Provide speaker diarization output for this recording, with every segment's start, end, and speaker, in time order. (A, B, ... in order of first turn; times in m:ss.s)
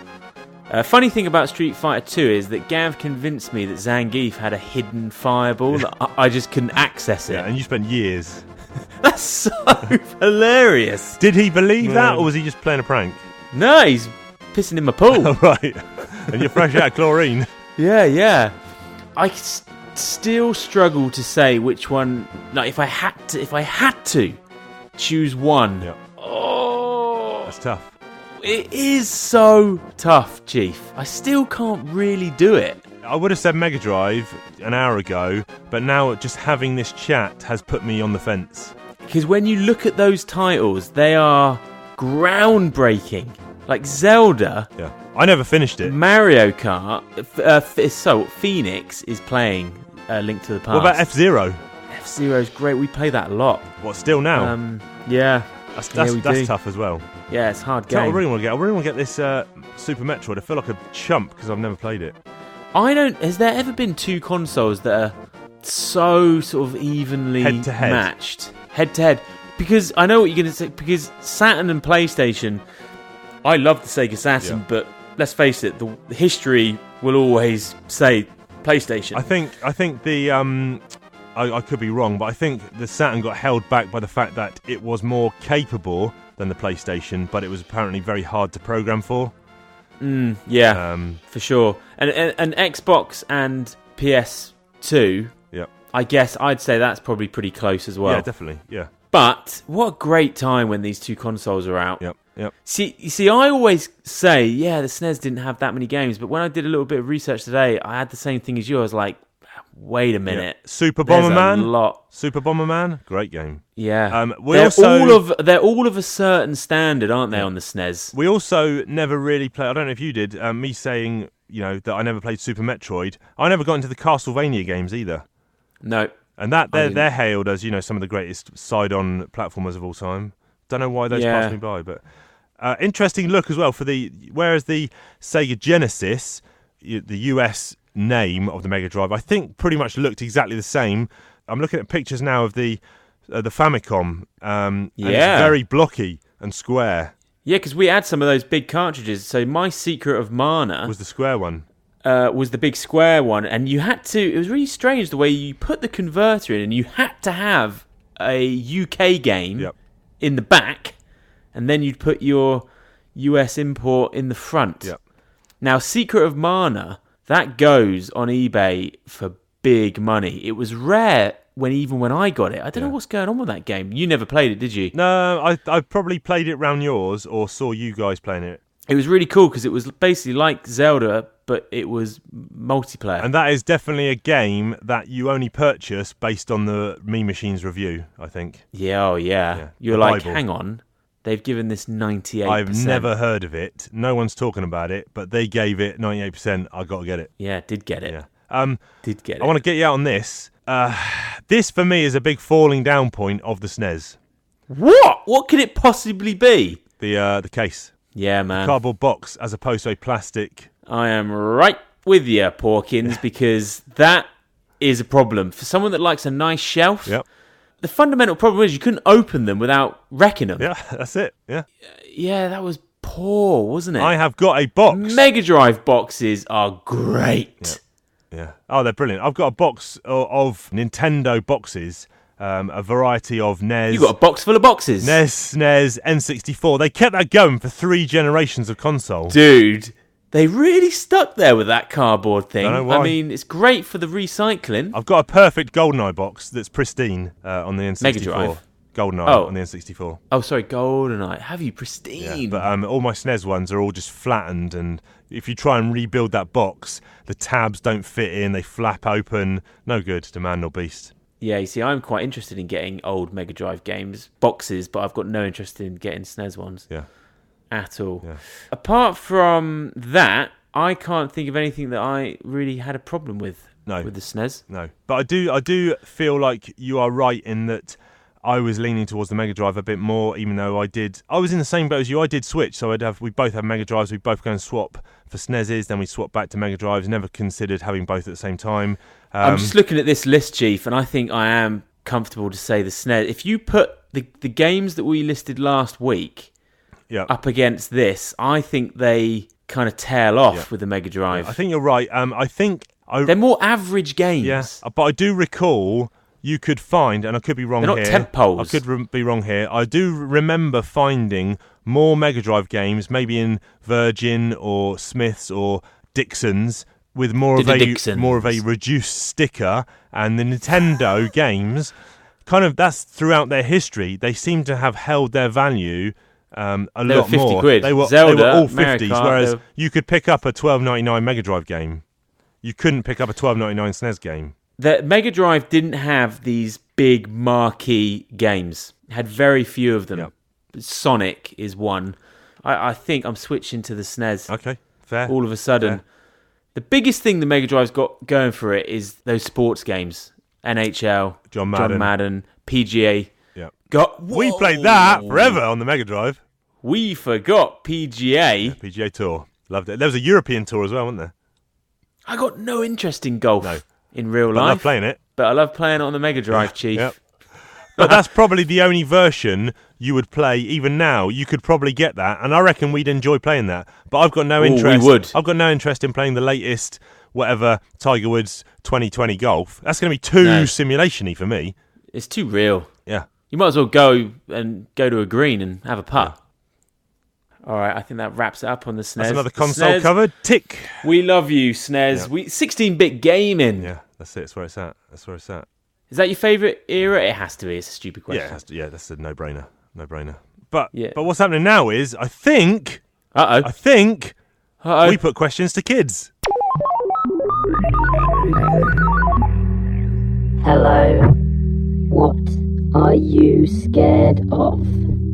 0:00.7-0:07.4 A
0:07.3-0:08.4 B
0:09.0-0:11.2 A
0:11.2-0:13.2 B
0:11.8-0:12.3 A
0:13.5-0:15.3 A
0:15.1-0:17.5 B
0:16.4-0:16.7 A
0:17.8-0:18.5 A
0:19.2-0:24.4 A
0:25.0-0:27.5 A
0:27.5-0:27.9 B
0:28.4-0:32.8 A
0:33.0-0:38.7 B
0:39.0-0:44.7 A
0:44.8-0:45.9 B
0:45.8-0:51.1 A
0:50.7-0:51.6 B
0:51.9-0:53.7 A
0:53.8-0:54.5 B
0:54.3-0:56.5 A
0:55.7-0:57.1 B
0:57.3-0:58.2 A
0:57.9-1:02.2 B
1:02.7-1:12.6 A
1:07.4-1:08.1 B
1:13.4-1:19.3 A
1:19.1-1:20.8 B
1:21.3-1:29.3 B
1:30.0-1:35.3 A
1:30.7-1:31.2 B
1:35.9-1:38.3 A
1:38.0-1:38.9 B
1:39.1-1:42.0 A
1:42.0-1:42.5 B
1:42.6-1:52.0 A
1:50.3-1:55.2 B
1:53.8-1:58.1 A
1:58.1-2:05.2 B
2:05.8-2:06.1 A
2:06.4-2:12.0 B
2:06.7-2:07.1 A
2:11.1-2:11.6 A
2:12.6-2:27.1 B
2:25.0-2:25.6 A
2:27.4-2:30.9 A
2:30.8-2:31.6 B
2:32.0-2:40.9 A
2:41.5-2:44.9 A
2:45.6-2:54.9 A
2:54.9-2:58.6 B
2:58.9-3:03.3 A
3:03.2-3:08.6 B
3:08.7-3:13.1 A
3:09.5-3:10.4 B
3:12.4-3:17.3 B
3:17.4-3:18.2 A
3:18.0-3:18.8 B
3:19.0-3:19.5 A
3:19.4-3:24.2 B
3:24.7-3:26.8 A
3:27.0-3:27.9 B
3:28.1-3:28.8 A
3:28.5-3:30.7 B
3:30.9-3:34.3 A
3:34.8-3:37.1 A
3:37.8-3:40.7 A
3:40.6-3:41.6 B
3:42.0-3:44.2 A
3:44.0-3:45.2 B
3:44.9-3:47.8 A
3:48.3-3:54.1 B
3:53.9-3:55.2 A
3:55.0-3:59.4 B
3:59.3-4:05.0 A
4:02.6-4:03.2 B
4:04.9-4:10.2 B
4:08.0-4:08.6 A
4:09.2-4:09.5 A
4:10.3-4:12.6 A
4:12.2-4:21.1 B
4:21.4-4:26.9 A
4:27.7-4:34.6 A
4:33.8-4:34.1 B
4:34.7-4:49.7 B
4:49.4-4:56.5 A
4:57.3-5:01.6 A
5:01.3-5:03.3 B
5:03.2-5:04.8 A
5:04.4-5:21.9 B
5:07.8-5:08.8 A
5:17.6-5:18.6 A
5:22.4-5:32.0 B
5:27.1-5:29.6 A
5:32.6-5:34.5 B
5:34.8-5:44.5 A
5:44.5-5:46.0 B
5:45.2-5:46.0 A
5:46.7-5:53.3 A
5:51.5-5:52.1 B
5:53.9-5:55.6 A
5:54.3-5:56.4 B
5:56.8-5:58.8 A
5:58.6-6:01.3 B
6:02.2-6:07.1 A
6:04.5-6:05.2 B
6:06.5-6:07.2 B
6:08.0-6:21.7 B
6:14.6-6:15.3 A
6:20.4-6:20.7 A
6:22.1-6:22.9 A
6:23.5-6:26.3 A
6:27.6-6:30.1 A
6:29.2-6:31.1 B
6:31.0-6:33.9 A
6:33.8-6:35.7 B
6:36.1-6:38.6 A
6:38.3-6:43.0 B
6:40.9-6:41.2 A
6:43.3-6:43.7 A
6:43.6-6:44.3 B
6:44.8-6:45.2 A
6:45.0-6:46.3 B
6:48.5-6:48.9 C
6:50.6-6:51.4 C
6:52.1-6:55.0 C